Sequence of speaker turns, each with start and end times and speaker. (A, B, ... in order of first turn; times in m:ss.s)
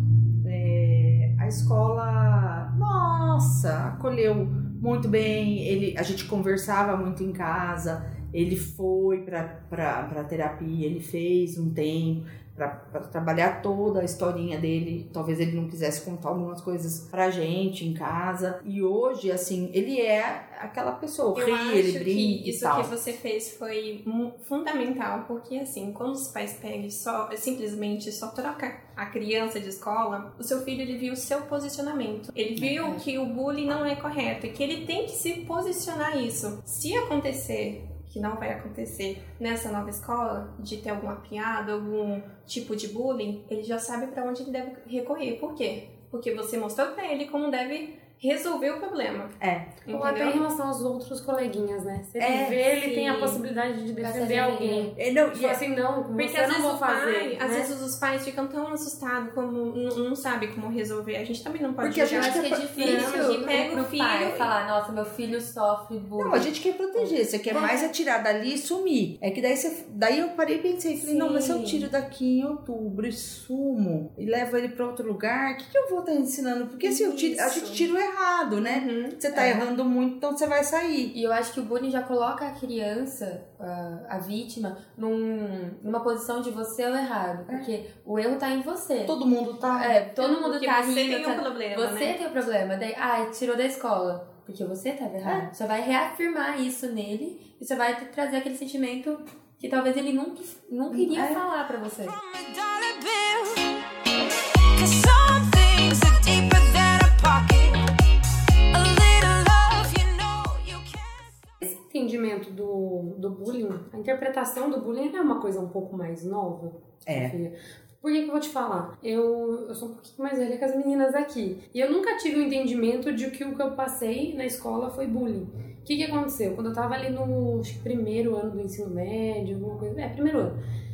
0:00.4-0:22.9 A
0:21.4-0:49.3 B
0:32.6-0:33.0 A
0:49.4-0:49.9 A
0:49.8-0:50.4 B
0:49.9-0:57.7 C
0:52.2-0:52.6 A
0:54.0-0:55.0 D
0:55.0-0:55.6 A
0:56.2-1:04.5 B
1:01.8-1:03.3 A
1:02.1-1:07.9 D
1:06.2-1:21.1 A
1:11.0-1:11.8 D
1:16.8-1:17.9 B
1:18.6-1:19.6 B
1:21.1-1:29.2 D
1:29.1-1:30.0 A
1:29.7-1:42.2 D
1:30.2-1:32.2 B
1:35.2-1:35.5 A
1:40.9-1:41.5 A
1:42.0-1:47.8 E
1:48.7-1:51.5 E
1:51.6-2:10.6 C
1:57.1-1:57.3 A